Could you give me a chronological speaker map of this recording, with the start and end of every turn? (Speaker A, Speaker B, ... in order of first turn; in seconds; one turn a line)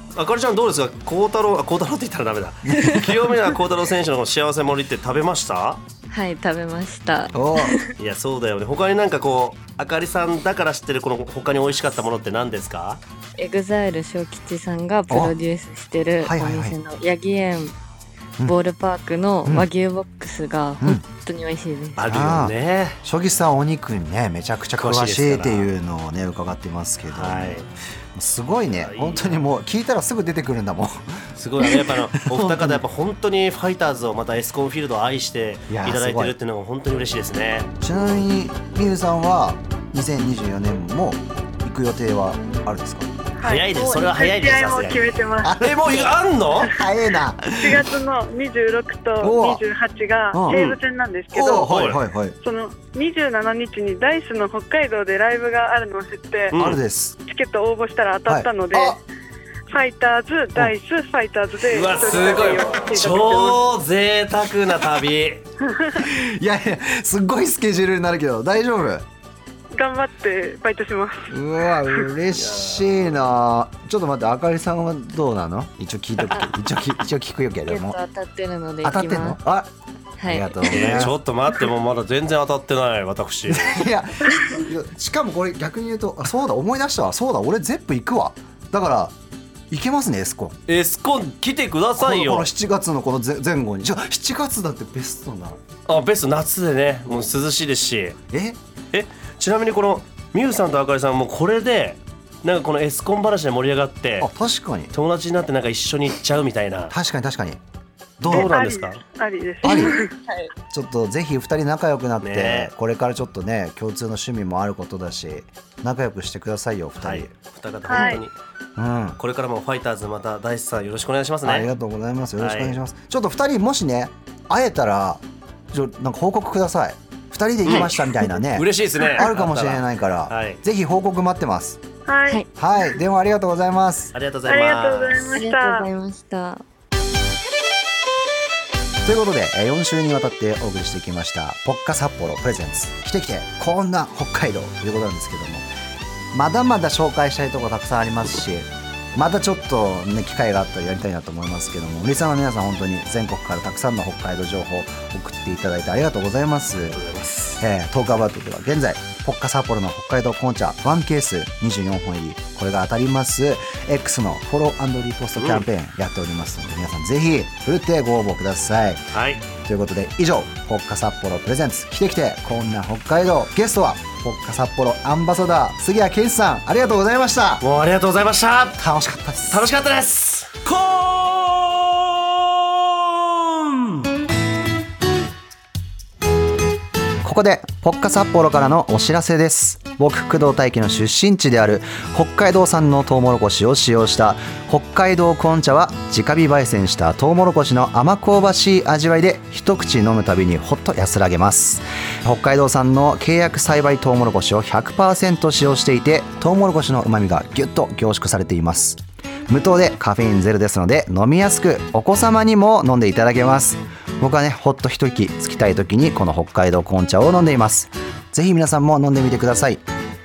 Speaker A: 0.1-5.8
Speaker B: 2.6-3.2
Speaker C: 6.1-7.9
Speaker B: 7.3-7.8
Speaker A: 8.0-13.0
Speaker C: 13.4-17.8
Speaker B: 15.1-15.4
Speaker B: 16.2-16.8
Speaker C: 18.4-22.1
Speaker B: 20.8-21.0
Speaker A: 21.9-23.0
Speaker B: 22.0-32.8
Speaker A: 24.8-25.7
Speaker A: 27.1-27.7
Speaker A: 28.6-29.5
Speaker A: 31.4-38.1
Speaker B: 35.7-36.4
Speaker B: 37.8-43.1
Speaker D: 43.4-45.6
Speaker A: 43.4-46.8
Speaker B: 45.4-46.1
Speaker B: 46.7-47.4
Speaker D: 47.5-51.7
Speaker B: 49.2-49.6
Speaker B: 50.3-50.7
Speaker A: 50.5-50.8
Speaker B: 51.3-52.4
Speaker A: 51.6-52.0
Speaker D: 52.4-56.6
Speaker A: 56.5-56.8
Speaker B: 56.5-57.1
Speaker D: 57.3-59.0
Speaker B: 58.2-59.0
Speaker D: 59.7-63.6
Speaker A: 61.7-65.4
Speaker D: 65.7-66.0
Speaker B: 66.0-69.0
Speaker D: 69.7-72.1
Speaker B: 71.3-78.0
Speaker A: 72.3-73.2
Speaker A: 76.2-76.5
Speaker C: 77.6-79.4
Speaker B: 78.8-79.7
Speaker C: 80.2-81.0
Speaker B: 80.2-81.2
Speaker A: 80.6-83.8
Speaker B: 83.5-89.1
Speaker B: 89.7-90.6
Speaker A: 90.7-92.5
Speaker B: 92.0-95.6
Speaker A: 95.9-98.2
Speaker B: 98.3-98.6
Speaker A: 98.9-104.3
Speaker B: 104.2-104.9
Speaker A: 104.9-106.9
Speaker B: 106.9-107.6
Speaker B: 108.2-108.6
Speaker A: 108.2-109.0
Speaker D: 108.3-110.1
Speaker B: 109.6-110.0
Speaker C: 109.6-110.5
Speaker B: 110.7-117.3
Speaker A: 112.2-112.7
Speaker A: 117.0-118.3
Speaker D: 117.8-118.2
Speaker B: 118.8-119.2
Speaker A: 119.2-121.7
Speaker B: 121.4-131.8
Speaker A: 122.4-122.8
Speaker A: 127.6-127.9
Speaker A: 128.5-130.6
Speaker D: 132.1-132.4
Speaker B: 132.6-134.1
Speaker A: 134.1-135.3
Speaker D: 134.5-135.9
Speaker C: 135.3-136.6
Speaker B: 139.0-145.7
Speaker B: 146.3-157.1
Speaker A: 156.9-157.6
Speaker B: 157.6-169.0
Speaker A: 165.4-165.7
Speaker A: 169.1-169.4
Speaker B: 169.6-177.6
Speaker A: 177.6-178.8
Speaker B: 178.8-179.7
Speaker A: 179.5-184.1
Speaker B: 187.2-219.8